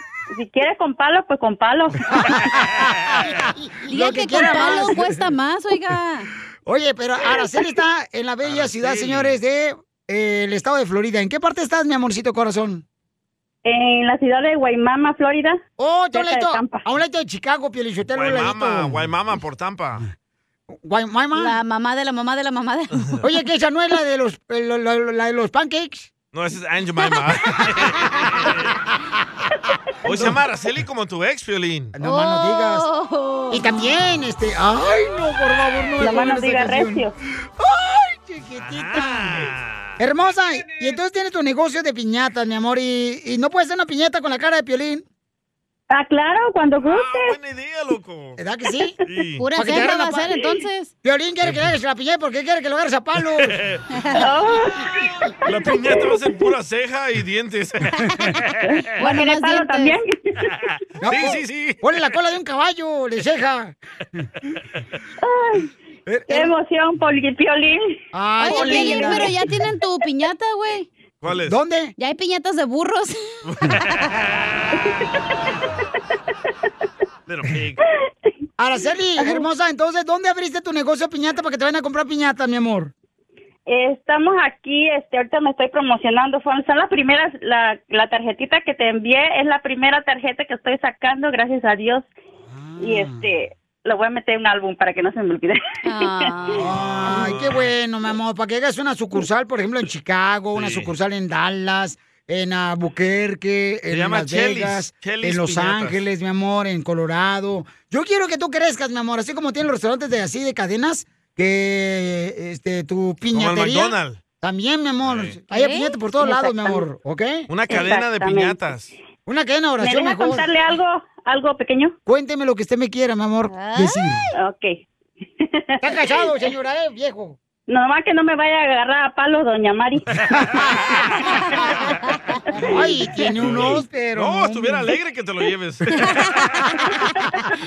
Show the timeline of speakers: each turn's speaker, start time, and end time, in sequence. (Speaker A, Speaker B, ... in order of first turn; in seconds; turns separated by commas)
Speaker A: 0.3-2.0, Speaker B: 2.1-5.1, Speaker C: 3.9-6.3, Speaker B: 6.7-12.8, Speaker D: 8.4-9.3, Speaker A: 13.7-15.6, Speaker B: 15.8-19.0, Speaker A: 16.1-16.8, Speaker D: 18.1-20.0, Speaker B: 20.8-21.6, Speaker C: 21.4-23.2, Speaker B: 23.2-26.1, Speaker D: 26.3-28.7, Speaker D: 30.1-31.9, Speaker B: 30.1-30.4, Speaker B: 31.9-32.9, Speaker C: 32.0-33.6, Speaker B: 33.5-37.0, Speaker A: 36.0-37.1, Speaker B: 37.6-45.0, Speaker D: 38.7-40.0, Speaker A: 45.9-47.3, Speaker D: 46.8-48.4, Speaker B: 48.4-49.0, Speaker D: 49.0-49.4, Speaker C: 49.4-50.9, Speaker B: 49.6-50.3, Speaker B: 51.0-53.6, Speaker D: 53.4-53.8, Speaker C: 53.9-54.2, Speaker A: 54.2-56.1, Speaker D: 55.5-58.5, Speaker C: 59.0-60.0, Speaker A: 59.0-60.5, Speaker D: 60.6-61.8, Speaker B: 61.0-63.8, Speaker A: 65.2-65.7, Speaker B: 66.1-66.5, Speaker A: 66.3-69.3, Speaker B: 68.1-69.3, Speaker C: 68.4-70.9, Speaker D: 71.2-71.6, Speaker B: 71.5-71.9, Speaker C: 72.0-73.2, Speaker D: 73.5-74.2, Speaker A: 74.8-75.2, Speaker D: 77.3-77.8, Speaker B: 78.6-82.9, Speaker A: 83.7-92.1, Speaker B: 92.5-93.3, Speaker A: 92.8-95.6, Speaker C: 95.8-96.7, Speaker B: 96.6-117.5, Speaker D: 97.1-97.7, Speaker D: 100.5-100.9, Speaker D: 103.9-106.0, Speaker D: 113.3-114.2, Speaker D: 115.0-115.4, Speaker C: 115.5-116.4, Speaker A: 116.5-116.8, Speaker D: 117.5-118.9, Speaker A: 117.7-118.6, Speaker B: 119.3-120.5, Speaker A: 119.8-122.0, Speaker B: 122.1-124.3, Speaker C: 123.5-124.0, Speaker A: 124.4-124.8, Speaker A: 125.4-125.8, Speaker B: 125.8-127.4, Speaker A: 127.7-130.0, Speaker D: 130.2-130.7, Speaker B: 130.3-131.9, Speaker B: 132.6-134.9, Speaker D: 133.4-136.5, Speaker B: 136.7-136.9